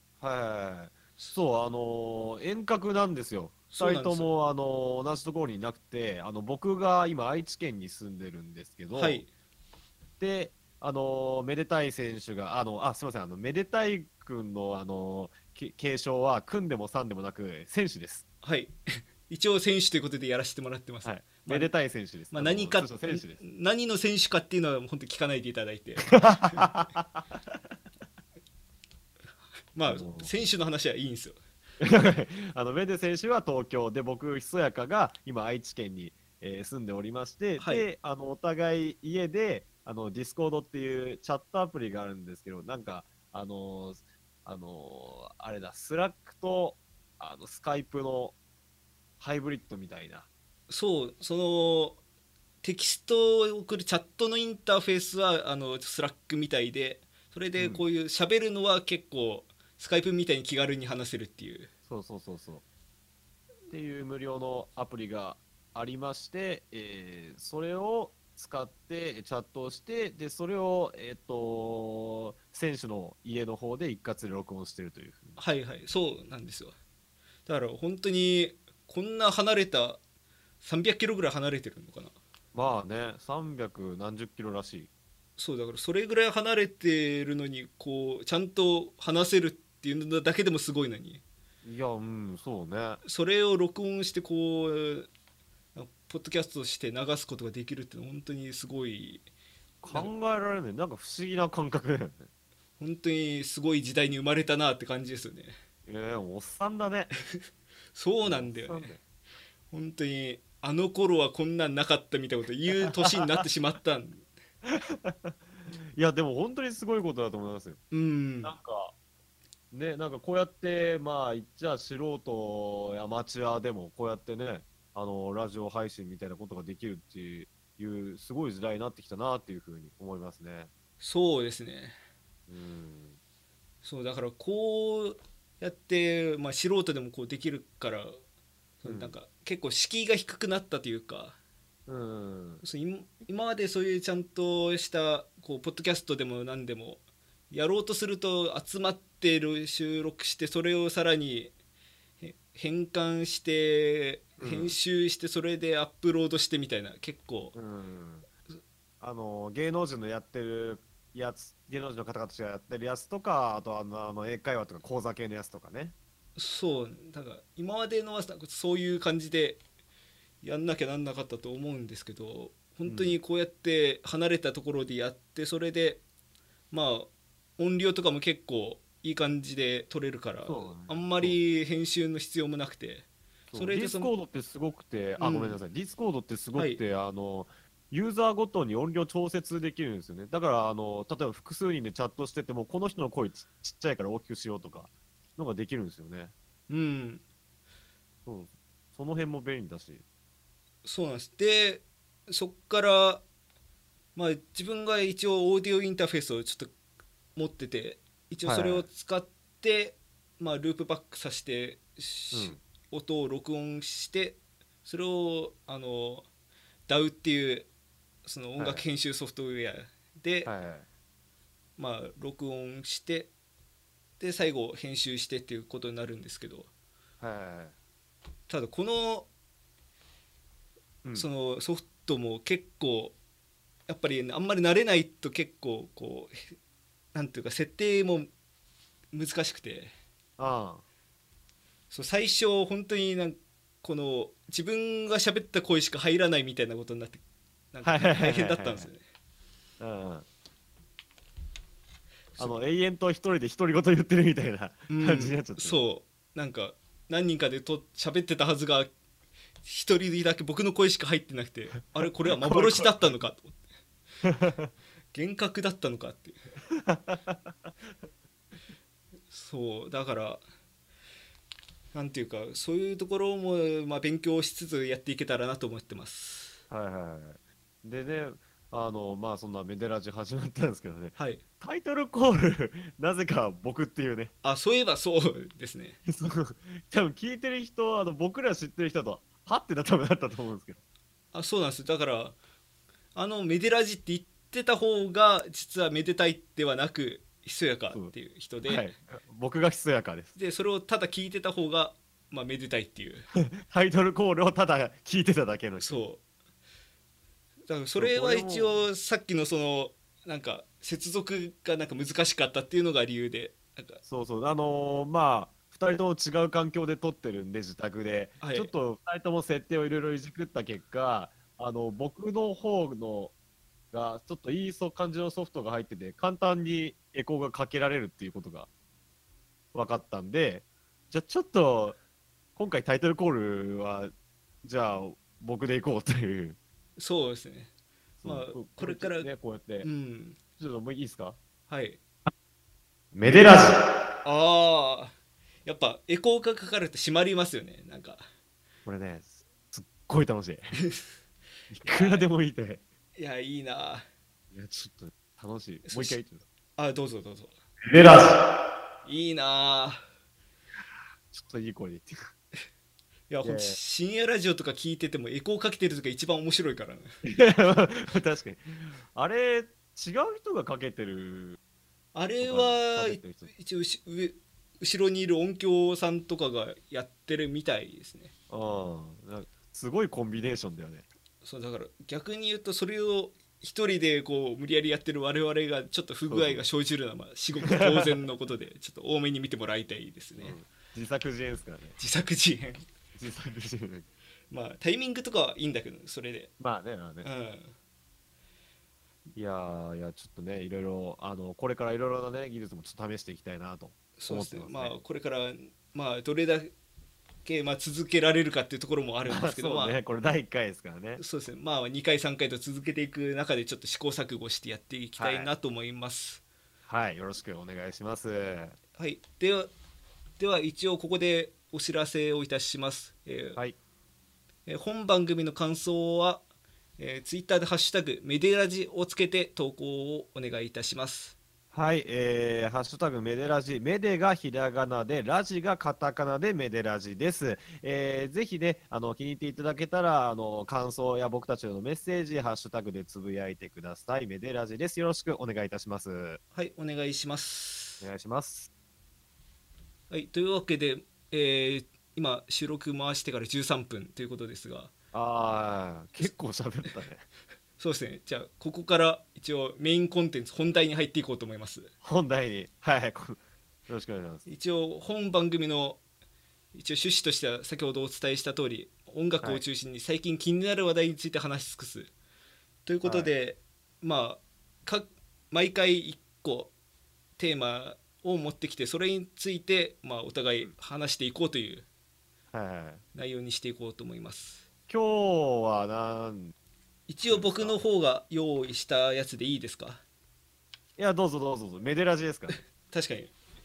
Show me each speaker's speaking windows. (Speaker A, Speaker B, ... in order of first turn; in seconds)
Speaker A: 0.2-9.2, 10.2-18.2, 21.0-23.4, 26.1-27.4, 29.8-30.3, 31.8-48.4, 49.2-50.3, 57.6-57.8, 61.9-62.6, 63.7-75.4, 82.5-84.9, 91.6-93.0, 99.8-102.3, 105.8-107.1, 108.2-109.0, 114.7-117.8, 118.4-118.9, 119.7-130.7, 132.5-133.2, 138.8-139.1, 141.9-142.6, 154.4-154.8, 157.5-158.3, 159.0-165.9, 172.8-173.2, 180.4-181.4, 183.5-196.3, 198.2-200.0, 208.4-208.9, 212.3-212.6, 218.6-218.8, 220.4-220.8, 227.2-227.7, 240.4-240.8, 247.8-248.9, 249.8-250.2, 252.4-255.8, 262.3-263.1, 264.2-264.7, 266.8-267.5, 276.7-284.3, 286.1-290.8, 298.6-300.3, 303.4-306.0, 307.9-308.8, 314.0-323.3, 323.9-328.7, 329.7-332.0, 332.6-334.1, 334.6-336.6, 338.2-339.9, 340.6-341.4, 343.1-343.8, 348.9-350.8, 351.7-352.8, 354.5-356.4, 357.8-358.4, 361.3-362.1, 363.4-363.8, 367.2-371.6, 372.4-373.5, 378.5-381.1, 386.3-386.6, 387.7-388.1, 390.4-391.9, 393.2-394.1, 396.6-397.3, 399.3-404.9, 409.2-411.2, 415.2-415.5, 416.9-418.8, 431.7-446.4, 448.0-448.7, 455.1-457.2, 462.0-464.4, 473.0-473.3, 482.5-483.0, 484.9-486.5, 487.3-487.8, 491.0-492.6
Speaker B: 3.7-4.3, 8.9-9.3, 18.4-18.8, 19.3-21.7, 22.3-26.6, 29.7-31.4, 37.6-37.9, 50.7-52.0, 52.6-61.7, 75.4-76.7, 77.5-80.0, 80.6-82.1, 85.4-91.2, 93.0-95.1, 95.7-99.2, 102.8-105.5, 107.9-108.9, 109.7-114.2, 117.9-118.5, 131.0-131.9, 133.8-138.2, 138.8-141.4, 142.6-151.5, 152.2-157.5, 166.3-169.6, 170.4-176.0, 176.7-184.1, 185.2-185.6, 186.5-186.8, 196.7-197.2, 200.8-203.2, 204.2-206.7, 207.3-216.3, 216.9-217.7, 218.2-220.5, 221.8-223.3, 224.2-226.7, 228.5-229.3, 231.2-233.2, 233.9-236.5, 237.1-238.3, 239.1-239.9, 241.9-249.0, 254.9-258.9, 259.6-263.6, 265.1-266.4, 269.3-270.4, 271.9-276.6, 281.2-281.4, 284.4-286.0, 291.3-292.4, 293.1-298.9, 300.3-303.2, 305.8-306.2, 307.7-314.0, 318.4-318.7, 337.0-337.7, 338.2-339.3, 339.8-340.4, 341.7-342.0, 344.2-348.2, 351.8-352.2, 353.1-354.1, 355.8-356.2, 356.8-357.5, 359.0-360.0, 363.3-367.1, 372.1-378.3, 381.4-390.6, 392.0-392.8, 394.5-396.5, 397.2-397.7, 404.2-406.7, 407.4-410.0, 411.2-416.4, 419.0-419.7, 420.4-423.6, 424.6-426.4, 427.0-431.4, 446.5-448.1, 450.1-454.9, 457.8-461.9, 464.5-466.0, 466.7-472.1, 472.8-476.7, 477.4-481.8, 483.1-484.6, 487.1-490.0, 492.9-493.3